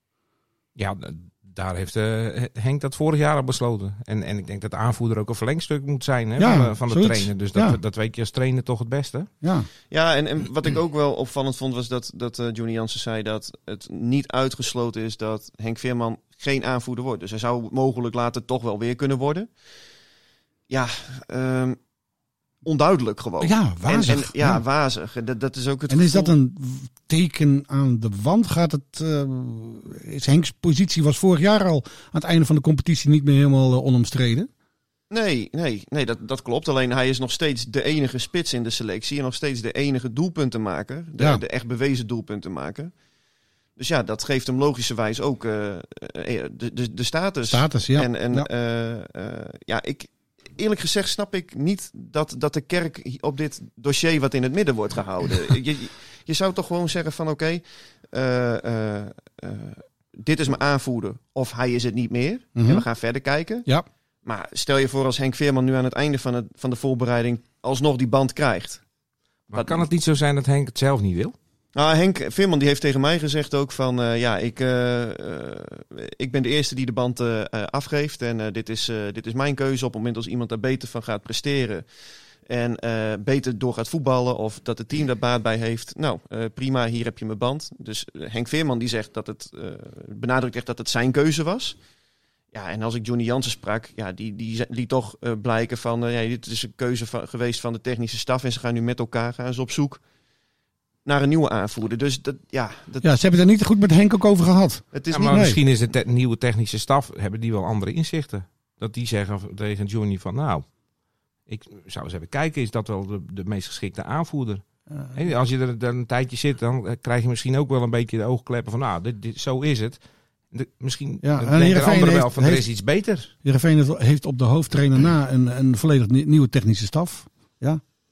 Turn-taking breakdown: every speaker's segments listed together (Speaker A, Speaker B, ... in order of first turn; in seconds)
Speaker A: 0.8-9.3, 69.5-71.3, 105.1-110.7, 111.5-114.6, 115.1-120.0, 120.5-123.3
Speaker B: 6.4-7.8, 9.4-9.7, 23.4-24.6, 25.9-34.5, 41.2-41.4, 47.4-48.5, 62.5-62.8, 103.0-105.6, 121.2-122.7, 123.4-127.8
Speaker C: 9.9-19.5, 20.7-21.8, 22.6-26.3, 35.1-42.9, 43.8-63.7, 64.2-68.8, 69.5-69.8, 71.7-81.8, 82.5-91.8, 92.5-100.0, 101.0-103.1, 104.9-105.5